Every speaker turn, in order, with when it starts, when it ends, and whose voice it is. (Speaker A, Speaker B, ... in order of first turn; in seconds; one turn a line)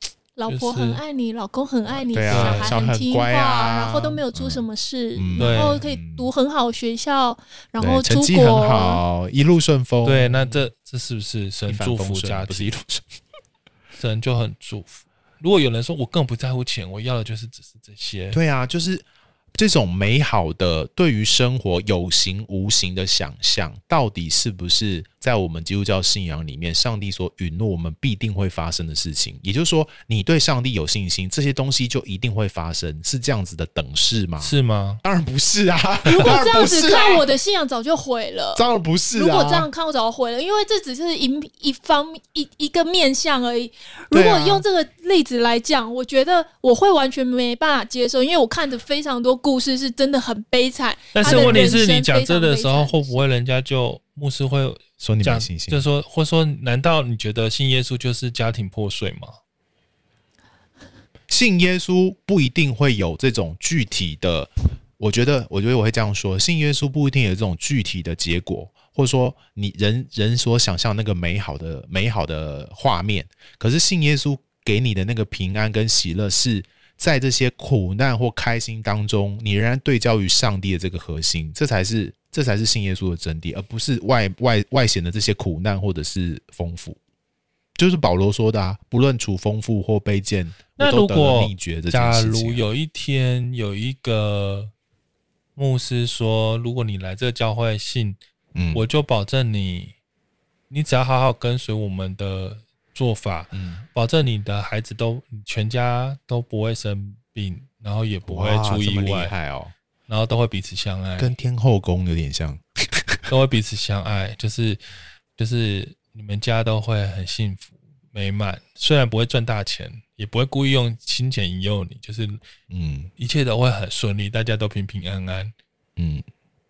Speaker A: 0.4-9.0
Speaker B: 0.5-1.0
Speaker C: 2.1-4.6
Speaker B: 2.3-2.8
Speaker C: 5.2-6.3
Speaker B: 5.4-5.8
Speaker C: 7.8-10.7
Speaker B: 10.0-12.8
Speaker C: 11.7-13.0
Speaker B: 13.9-18.4
Speaker C: 18.3-37.3
Speaker B: 34.4-35.0
Speaker A: 36.0-53.2
Speaker C: 38.6-39.7
Speaker C: 44.1-44.6
Speaker B: 51.1-59.3
Speaker C: 51.2-51.8
Speaker C: 55.0-55.9
Speaker C: 61.3-87.0
Speaker C: 87.8-92.6
Speaker B: 90.8-94.7
Speaker B: 95.6-98.2
Speaker C: 98.5-98.8
Speaker B: 98.7-99.9
Speaker B: 100.7-109.3
Speaker C: 103.5-103.8
Speaker C: 108.3-109.7
Speaker B: 110.1-111.3
Speaker C: 111.2-113.2
Speaker B: 113.3-114.8
Speaker B: 115.4-122.4
Speaker C: 122.7-123.1
Speaker B: 123.2-125.5
Speaker C: 126.0-126.2